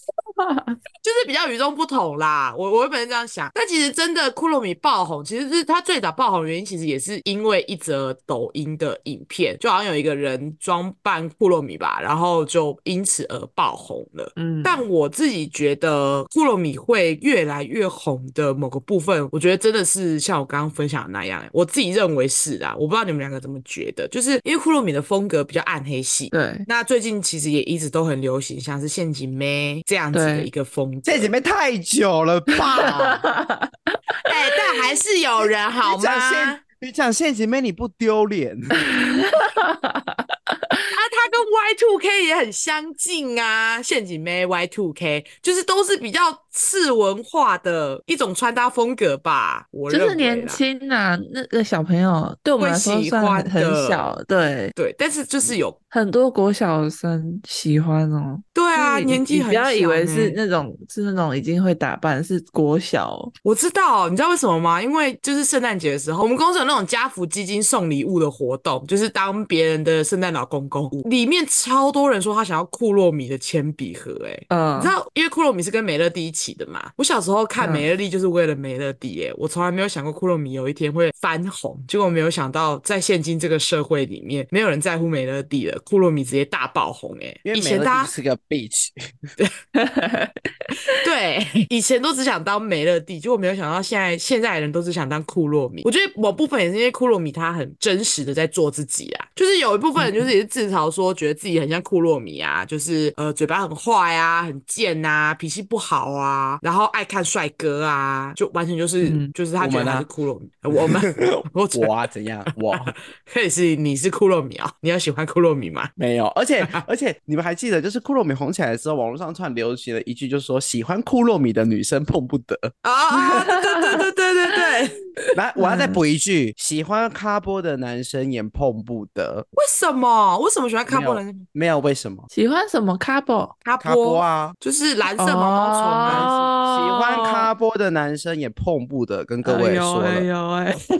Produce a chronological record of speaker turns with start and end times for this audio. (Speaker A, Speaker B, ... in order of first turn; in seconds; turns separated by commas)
Speaker A: 0.4-0.8, Speaker B: 1.0-31.3, Speaker A: 14.4-14.9, Speaker A: 26.3-26.7, Speaker A: 30.1-30.5, Speaker C: 31.1-33.2, Speaker B: 32.8-33.2, Speaker A: 32.8-34.9, Speaker B: 34.2-36.6, Speaker C: 35.8-38.8, Speaker A: 38.8-40.9, Speaker B: 40.9-50.6, Speaker A: 49.9-54.7, Speaker B: 52.6-54.1, Speaker B: 54.8-55.8, Speaker A: 55.9-63.3, Speaker B: 58.5-60.4, Speaker B: 63.4-88.1, Speaker A: 74.5-75.0, Speaker A: 77.6-77.9, Speaker C: 87.5-88.9, Speaker A: 89.8-91.0, Speaker B: 90.9-111.9, Speaker A: 100.0-100.3, Speaker A: 109.0-109.3, Speaker C: 109.6-110.1, Speaker C: 110.8-113.0, Speaker B: 112.5-115.9, Speaker C: 116.0-122.7, Speaker B: 122.8-125.0, Speaker A: 123.2-126.0, Speaker C: 125.3-129.5, Speaker B: 129.6-131.4, Speaker C: 130.9-132.3, Speaker A: 132.3-133.5, Speaker B: 133.6-136.5, Speaker C: 133.8-134.6, Speaker A: 135.2-137.5, Speaker C: 136.1-140.3, Speaker A: 139.4-140.8